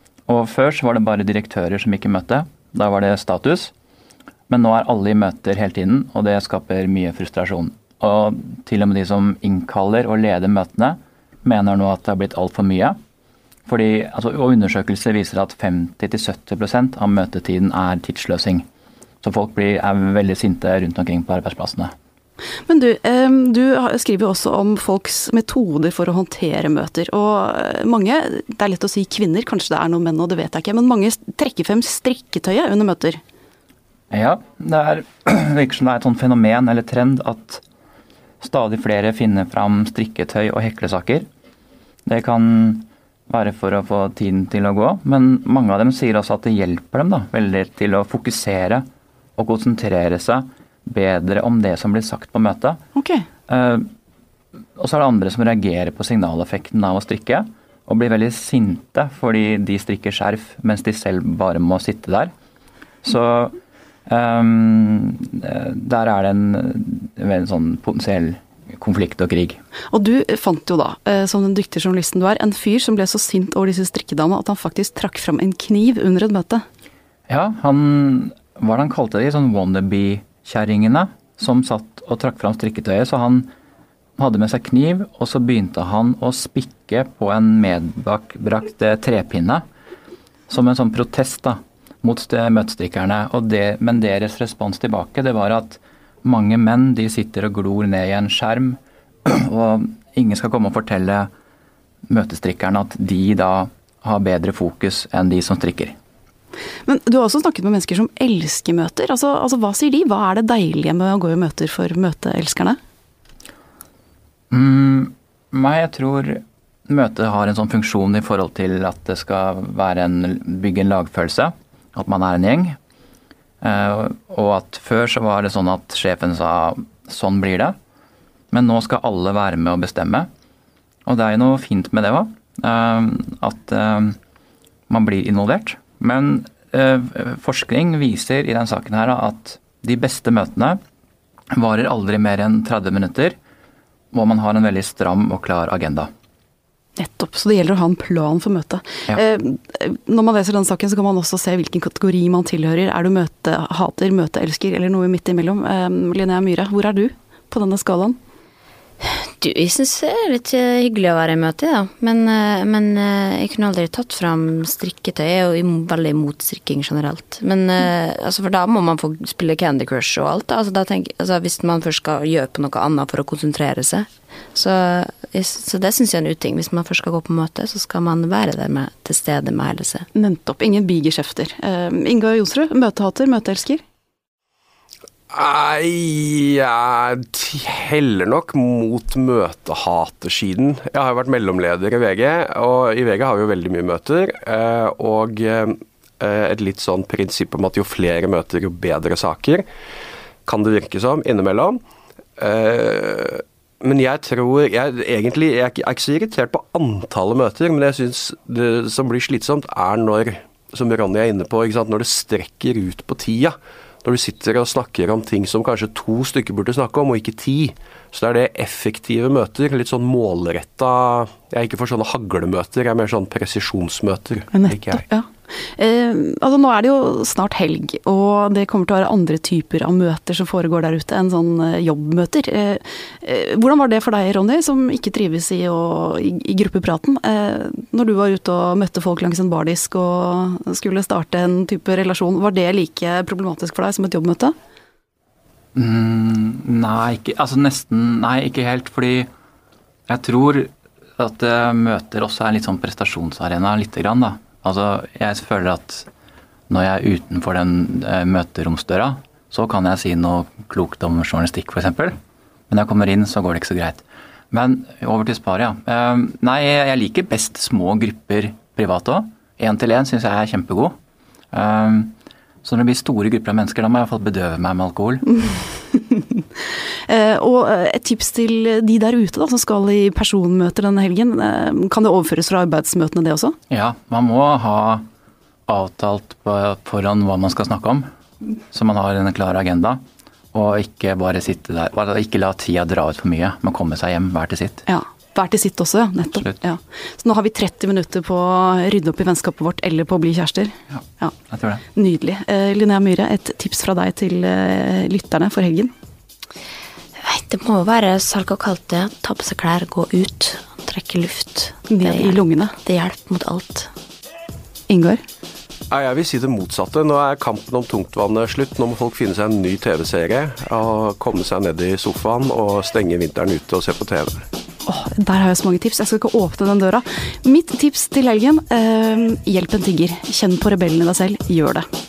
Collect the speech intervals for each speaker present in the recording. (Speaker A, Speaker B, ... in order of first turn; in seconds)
Speaker A: 0.3-3.7, 4.5-12.9, 13.7-18.6, 19.2-21.9, 34.1-37.6, 38.4-41.2, 42.0-48.8, 49.4-52.8, 53.5-53.9, 54.8-62.3, 63.0-63.5, 64.1-69.6, 77.3-83.5, 84.2-89.6, 90.5-101.3, 102.1-105.9, 114.5-122.8, 123.6-127.8, 128.5-130.3, 131.1-134.2, 134.9-140.8, 141.5-143.4, 144.1-146.1, 245.7-249.3, 250.1-256.1, 256.7-262.1, 262.7-270.9, 271.5-272.1, 272.6-275.4, 283.7-285.0, 285.7-288.1, 288.7-290.0, 290.5-294.9, 301.5-301.8
Speaker B: 22.7-33.2, 52.9-53.2, 69.9-76.6, 106.8-112.8, 147.0-158.2, 180.1-183.8, 224.5-244.5, 277.1-283.6, 294.9-301.3, 301.9-305.9, 311.9-312.7, 314.9-315.2, 324.9-331.9
Speaker C: 159.0-180.1, 307.2-313.9
Speaker D: 185.3-199.7, 200.4-201.8, 202.4-225.0, 315.9-324.5